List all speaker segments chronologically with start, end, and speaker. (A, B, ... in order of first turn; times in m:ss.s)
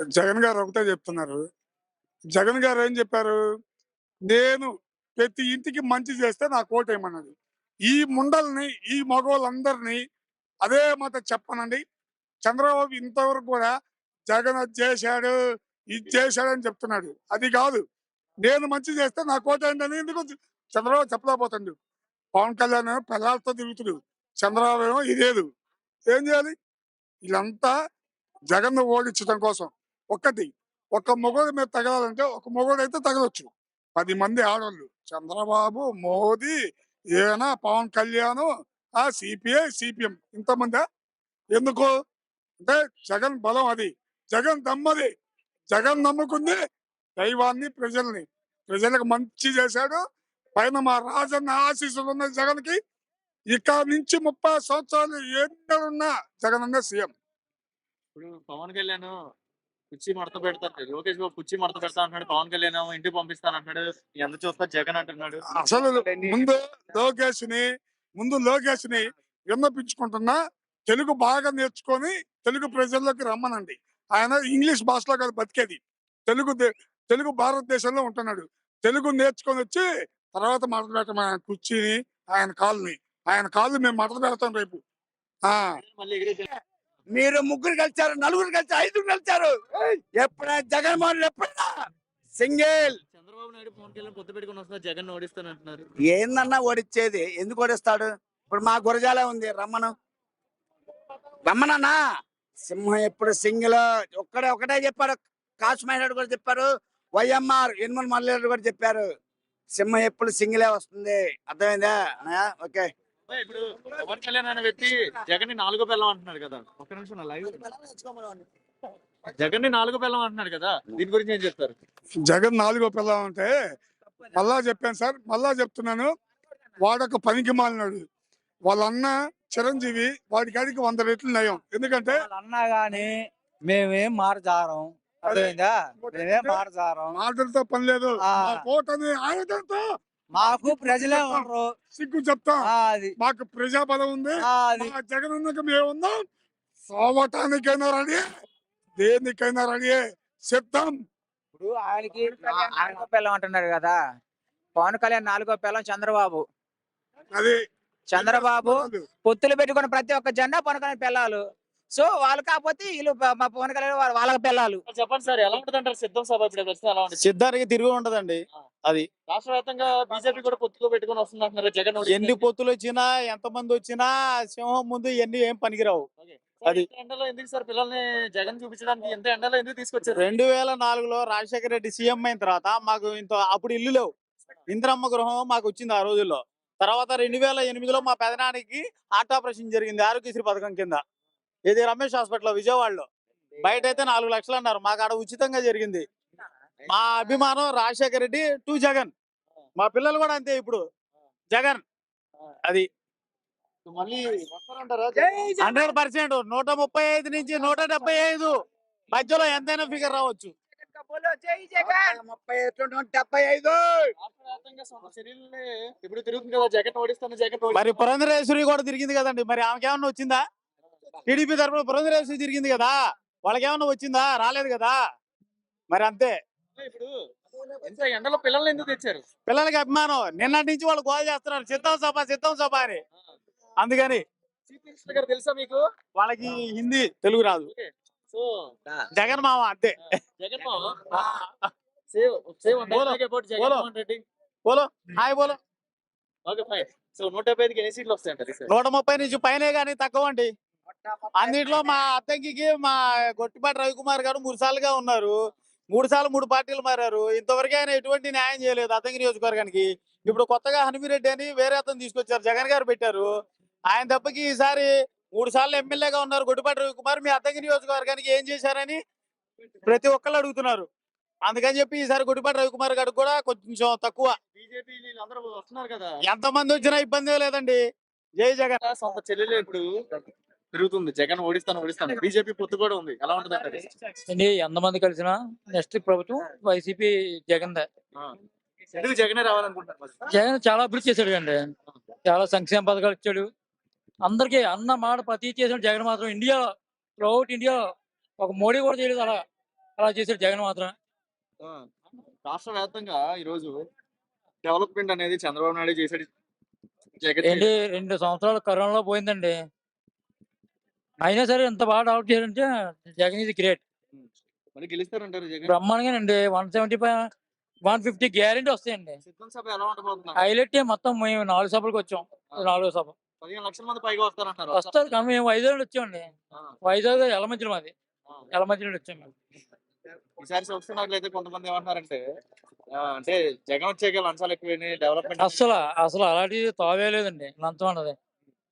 0:00.2-0:01.4 A
0:02.3-0:03.4 A
0:04.3-0:07.3 A
0:07.9-0:10.0 A
0:10.6-0:11.8 A
0:12.4-0:13.7 A
0:14.3-0:15.3 A
0:15.9-0:17.8 A
0:18.4-0:21.8 A
0:22.4-0:25.5 A
0:26.1-0:26.6 A
0:27.2-0:27.7 A
0:28.5-0:36.5 A
0:37.2-0:38.5 A
0:39.0-0:40.8 A
0:41.5-0:41.9 A
0:42.6-0:45.1 A
0:45.7-0:46.6 A
0:47.2-0:50.0 A
0:50.6-0:52.8 A
0:53.5-0:57.1 A
0:58.2-0:59.1 B
0:59.9-1:05.5 B
1:05.6-1:07.6 A
1:08.2-1:10.4 A
1:10.9-1:24.8 A
1:25.8-1:26.5 B
1:27.1-1:31.7 C
1:32.4-1:33.0 C
1:32.8-1:35.9 B
1:36.1-1:39.9 C
1:41.4-1:42.0 C
1:42.6-1:49.1 C
1:49.7-1:52.9 C
1:53.3-1:57.7 B
1:57.7-1:58.4 C
1:59.3-2:01.8 B
2:02.3-2:03.5 A
2:04.3-2:06.1 A
2:06.8-2:08.0 A
2:08.7-2:12.3 A
2:12.1-2:17.2 D
2:15.2-2:19.8 A
2:18.3-2:18.6 D
2:20.4-2:21.7 D
2:20.4-2:21.1 E
2:20.6-2:26.2 A
2:22.7-2:23.2 D
2:24.4-2:24.9 D
2:26.9-2:28.2 A
2:29.0-2:30.9 A
2:31.6-2:34.0 D
2:34.8-2:36.5 D
2:38.1-2:44.8 D
2:38.1-2:39.0 A
2:44.9-2:47.2 B
2:47.2-2:49.1 E
2:49.3-2:52.4 B
2:52.1-2:56.1 E
2:56.2-3:00.2 B
3:00.2-3:04.1 E
3:04.7-3:11.0 E
3:11.7-3:13.1 E
3:13.6-3:16.0 E
3:16.9-3:19.1 E
3:19.8-3:20.8 E
3:21.5-3:21.8 E
3:23.9-3:25.5 B
3:25.6-3:28.5 E
3:29.1-3:30.5 E
3:30.8-3:32.2 D
3:31.8-3:34.1 C
3:34.2-3:38.0 B
3:37.7-3:40.4 E
3:41.3-3:45.0 E
3:45.9-3:46.4 E
3:46.8-3:47.1 B
3:47.7-3:49.2 B
3:49.5-3:53.0 E
3:53.8-3:54.2 E
3:54.7-3:55.8 B
3:56.2-3:57.7 E
3:57.7-3:58.5 B
3:59.1-4:00.2 E
4:00.4-4:01.0 B
4:01.1-4:01.7 E
4:02.1-4:04.2 B
4:02.9-4:03.9 E
4:04.7-4:05.6 E
4:06.5-4:08.7 B
4:08.7-4:10.5 E
4:11.4-4:15.4 E
4:15.9-4:23.3 E
4:23.9-4:29.0 E
4:29.8-4:30.9 E
4:31.4-4:34.4 E
4:34.6-4:36.1 B
4:36.3-4:37.8 E
4:38.4-4:38.8 E
4:38.8-4:39.8 B
4:40.7-4:43.9 B
4:44.3-4:47.9 F
4:48.9-4:50.2 B
4:50.3-4:51.7 F
4:52.3-4:53.5 F
4:54.2-4:57.8 F
4:58.4-4:59.4 F
5:00.0-5:00.9 F
5:02.5-5:03.8 B
5:04.6-5:06.3 B
5:07.2-5:07.7 B
5:07.4-5:09.5 F
5:11.2-5:13.8 F
5:14.1-5:15.8 B
5:15.7-5:17.3 F
5:17.8-5:19.2 F
5:19.2-5:20.4 B
5:20.4-5:23.2 F
5:23.4-5:24.9 B
5:24.7-5:26.3 F
5:26.8-5:27.9 F
5:28.5-5:29.3 F
5:30.4-5:32.2 B
5:33.0-5:35.6 B
5:35.4-5:38.2 F